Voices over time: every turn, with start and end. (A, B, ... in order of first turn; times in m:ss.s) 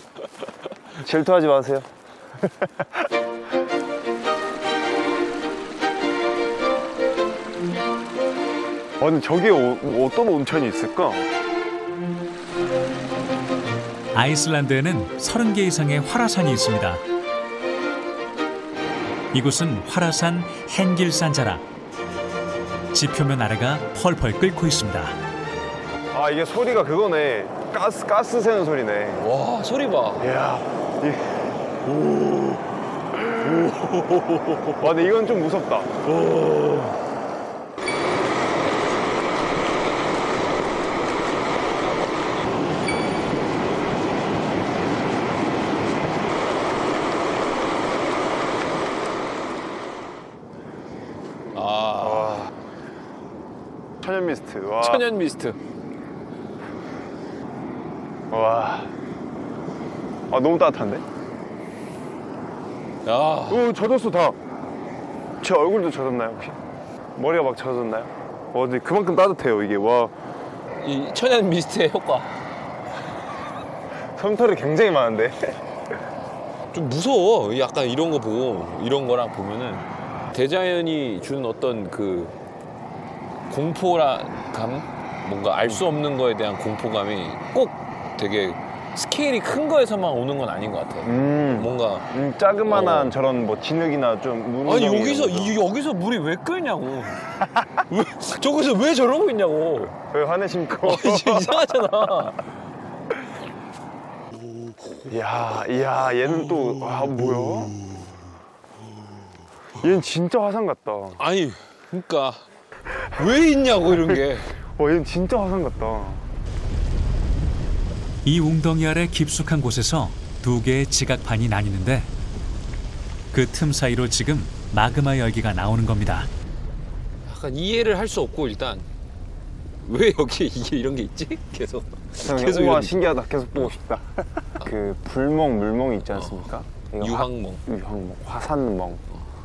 0:01.0-0:01.9 A
0:09.0-0:11.3 A
0:14.1-0:17.0 B
0:19.3-0:21.6 B
0:22.9-0:25.2 B
0:26.1-0:29.2 A
0:29.2-0:30.3 C
0:30.2-0:31.5 A
0:33.3-0:34.8 C
0:34.8-0:36.0 A
0:36.1-0:36.9 C
0:51.5-0:52.5 C
0:52.0-0:52.5 A
0:54.0-0:55.0 A
0:54.8-0:55.6 C
0:58.3-0:58.9 A
1:00.3-1:01.0 A
1:03.0-1:03.7 C
1:03.5-1:04.4 A
1:05.4-1:06.6 A
1:07.2-1:10.1 A
1:10.8-1:12.3 C
1:14.2-1:15.6 A
1:16.7-1:22.3 C
1:23.5-1:32.1 C
1:31.0-1:35.6 A
1:32.6-1:33.1 C
1:34.6-1:37.2 C
1:37.8-1:40.0 C
1:40.1-1:41.7 A
1:40.8-1:42.4 C
1:45.1-1:47.8 A
1:49.8-1:51.2 A
1:51.2-1:52.4 C
1:53.1-1:54.5 C
1:54.8-1:56.2 A
1:58.2-2:02.1 B
2:03.3-2:06.3 B
2:07.3-2:08.9 C
2:09.8-2:13.0 C
2:12.2-2:19.0 A
2:17.0-2:17.6 C